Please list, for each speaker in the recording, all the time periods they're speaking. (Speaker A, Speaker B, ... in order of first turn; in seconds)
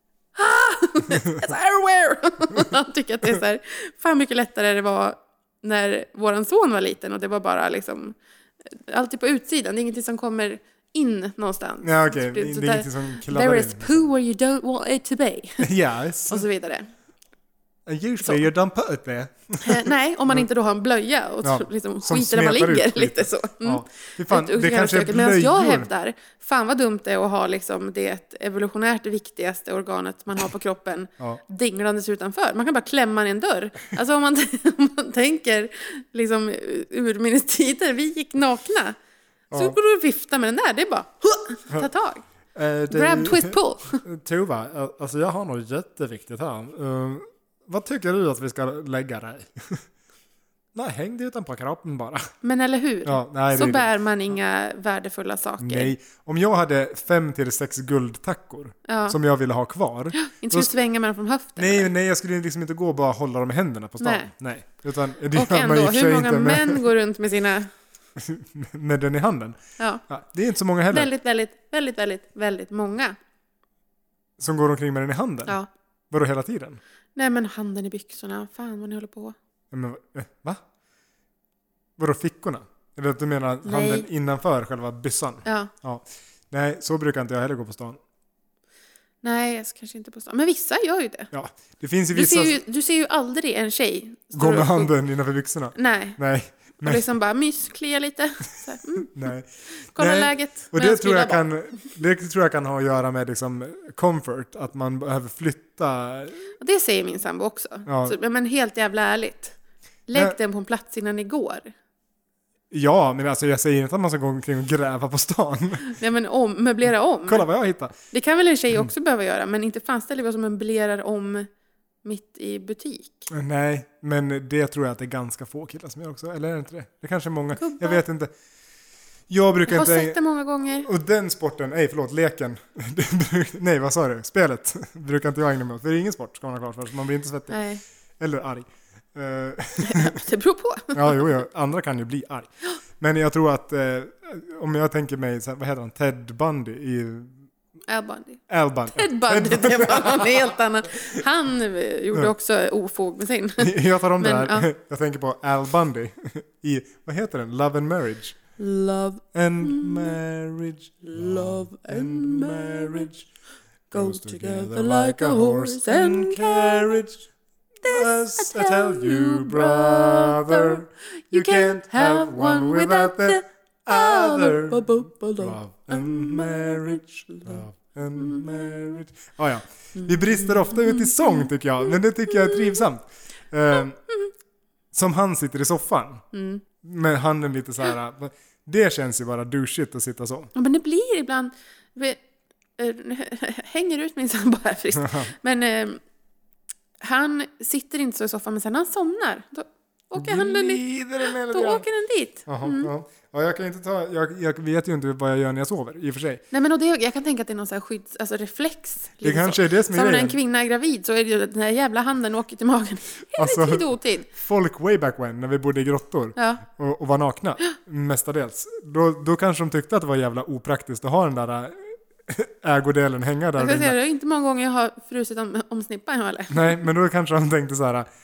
Speaker A: 0.3-8.2, 8.7-15.7, 16.3-16.9, 19.6-39.0, 39.5-42.2, 42.9-44.0, 52.4-55.9, 58.9-59.2, 60.1-61.9, 64.0-64.3, 65.3-67.7, 70.9-73.2, 77.2-79.3, 83.6-84.0, 85.4-85.7, 89.2-91.3, 92.1-94.9, 95.7-96.2, 96.8-101.4, 106.6-111.7, 115.8-117.5, 118.1-121.5, 122.0-123.3, 127.5-128.0, 129.7-130.9, 137.5-137.8, 139.8-141.2, 147.9-148.4, 148.9-154.7, 158.6-160.2, 161.0-163.1, 163.9-167.0, 167.8-177.6, 178.2-178.8, 179.9-181.5, 182.3-182.8, 186.3-186.6, 190.5-192.2, 192.8-196.0, 197.0-202.9, 206.5-214.3, 216.3-216.6, 223.6-226.7
Speaker B: 11.8-14.0, 15.6-16.4, 17.9-20.4, 21.4-25.9, 39.5-39.8, 42.5-49.8, 50.7-52.3, 53.0-53.9, 55.6-60.7, 61.6-66.8, 68.2-71.1, 74.4-75.6, 76.1-76.8, 79.7-80.6, 82.0-88.0, 91.3-92.6, 94.3-97.0, 99.1-106.4, 107.8-108.2, 112.7-115.8, 117.3-117.9, 123.3-128.3, 129.3-130.2, 130.8-137.6, 138.2-140.2, 140.9-147.3, 148.5-150.6, 153.6-158.4, 159.3-163.3, 163.9-167.3, 167.8-184.0, 184.9-186.2, 186.8-190.5, 195.0-195.3, 200.1-201.8, 202.5-206.4, 209.2-210.4, 213.3-224.0, 226.5-228.1